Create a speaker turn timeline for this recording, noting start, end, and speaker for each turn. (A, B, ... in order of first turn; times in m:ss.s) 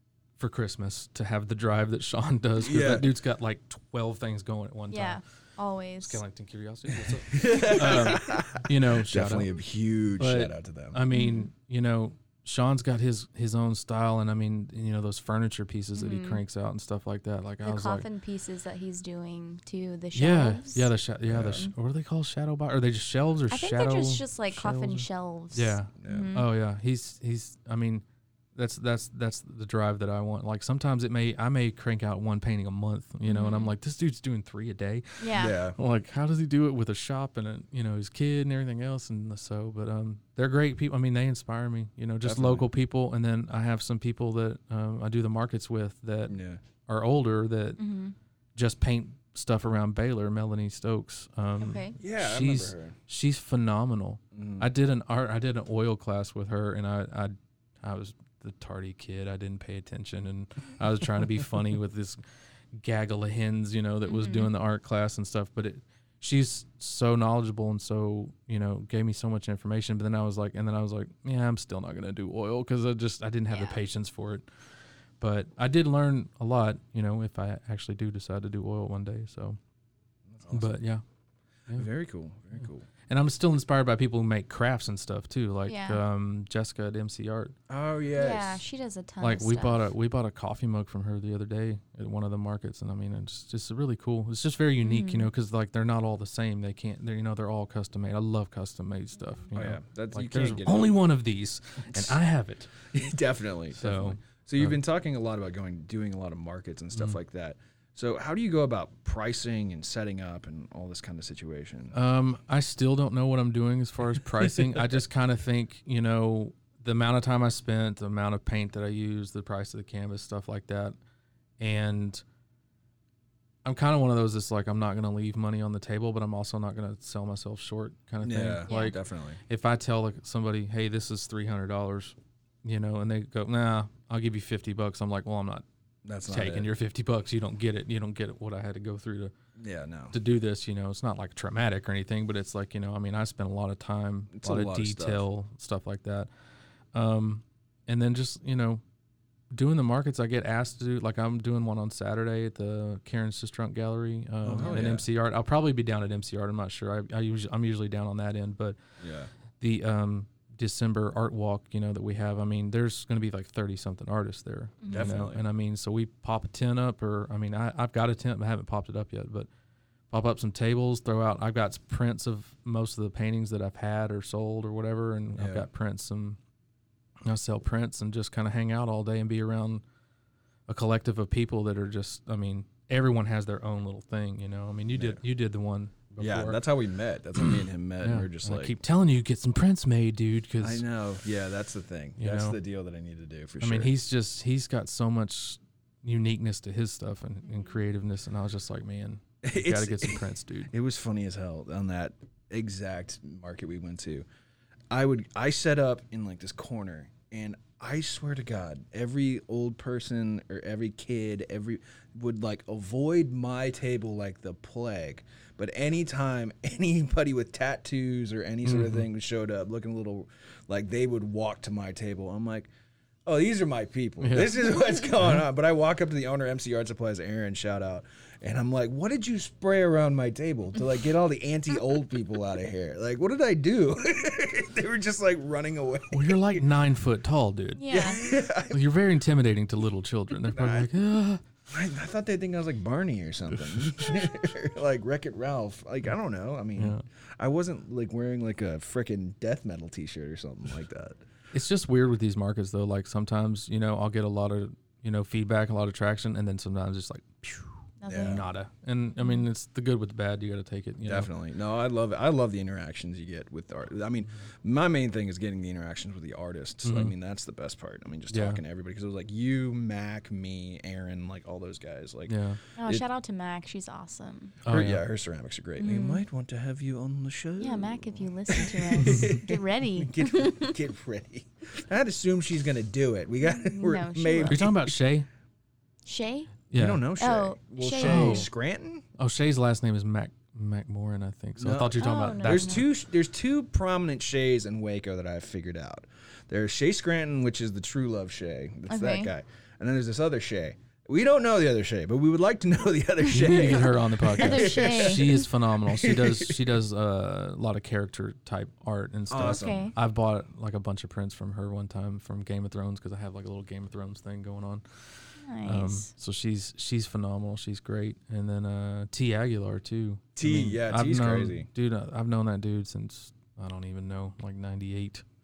0:00.4-0:05.2 A
0:02.6-0:03.1 B
0:04.9-0:06.2 C
0:06.0-0:09.5 A
0:07.1-0:11.0 B
0:10.2-0:18.0 A
0:11.1-0:11.5 C
0:15.9-0:16.4 C
0:17.6-0:20.9 C
0:20.1-0:28.0 A
0:21.3-0:21.7 B
0:23.5-0:26.5 C
0:26.0-0:26.3 B
0:28.5-0:47.8 A
0:33.2-0:33.7 C
0:35.2-0:35.5 C
0:35.4-0:35.8 B
0:42.2-0:42.7 B
0:46.3-0:46.6 B
0:47.8-0:48.1 C
0:48.5-1:02.2 A
0:51.6-0:52.0 C
0:52.0-0:52.9 B
0:54.3-0:54.7 B
1:02.7-1:14.5 A
1:04.1-1:04.5 C
1:13.5-1:13.8 C
1:15.2-1:19.6 A
1:20.3-1:20.8 B
1:20.5-1:21.0 A
1:21.7-1:22.8 B
1:22.6-1:27.5 A
1:25.7-1:26.0 C
1:27.7-1:28.6 B
1:28.2-1:29.9 C
1:29.2-1:42.7 A
1:34.8-1:35.3 C
1:39.5-1:41.0 B
1:41.8-1:42.2 B
1:42.9-1:52.0 B
1:43.8-1:44.8 A
1:46.9-1:47.2 A
1:51.9-2:01.0 A
1:54.4-1:54.9 B
2:01.6-2:02.2 A
2:03.6-2:15.6 A
2:08.2-2:09.4 B
2:16.0-2:16.7 B
2:16.3-2:19.3 A
2:19.6-2:20.2 B
2:20.1-2:26.3 A
2:24.3-2:25.2 B
2:26.9-2:28.8 A
2:29.5-2:38.8 A
2:34.4-2:35.0 B
2:39.0-2:39.3 B
2:39.6-2:49.5 A
2:44.8-2:45.1 C
2:44.9-2:45.4 B
2:50.1-2:56.4 A
2:55.3-2:55.7 B
2:57.2-2:59.8 A
3:00.7-3:06.6 A
3:04.9-3:05.2 B
3:06.2-3:08.8 B
3:07.4-3:10.8 A
3:10.6-3:13.9 B
3:12.2-3:12.6 A
3:13.6-3:20.7 A
3:19.4-3:24.3 B
3:24.9-3:42.7 B
3:38.6-3:39.1 A
3:43.2-3:56.6 B
3:44.2-3:44.6 A
3:56.1-3:58.1 A
3:57.8-3:58.2 C
3:57.9-3:58.8 B
3:58.7-4:01.4 A
4:00.5-4:00.9 B
4:01.7-4:11.2 B
4:03.5-4:04.1 A
4:06.7-4:07.0 A
4:11.5-4:21.3 A
4:18.0-4:18.4 C
4:18.1-4:18.4 B
4:19.2-4:19.5 C
4:21.0-4:33.0 B
4:26.8-4:27.1 A
4:28.3-4:28.6 A
4:32.3-4:32.6 A
4:32.8-4:34.6 C
4:34.6-4:35.0 A
4:34.7-4:45.0 B
4:35.8-4:36.2 C
4:37.6-4:40.8 C
4:43.4-4:44.6 C
4:44.4-4:45.3 A
4:46.0-4:46.6 C
4:46.7-4:47.0 A
4:46.7-4:49.0 B
4:47.2-4:48.5 C
4:48.0-4:48.5 A
4:49.2-4:52.8 A
4:51.6-5:06.6 B
4:52.0-4:52.9 C
4:58.9-4:59.3 C
5:03.3-5:03.8 C
5:03.3-5:25.2 A
5:04.4-5:05.4 C
5:09.3-5:09.9 B
5:09.5-5:09.9 C
5:15.4-5:16.1 C
5:20.4-5:21.7 B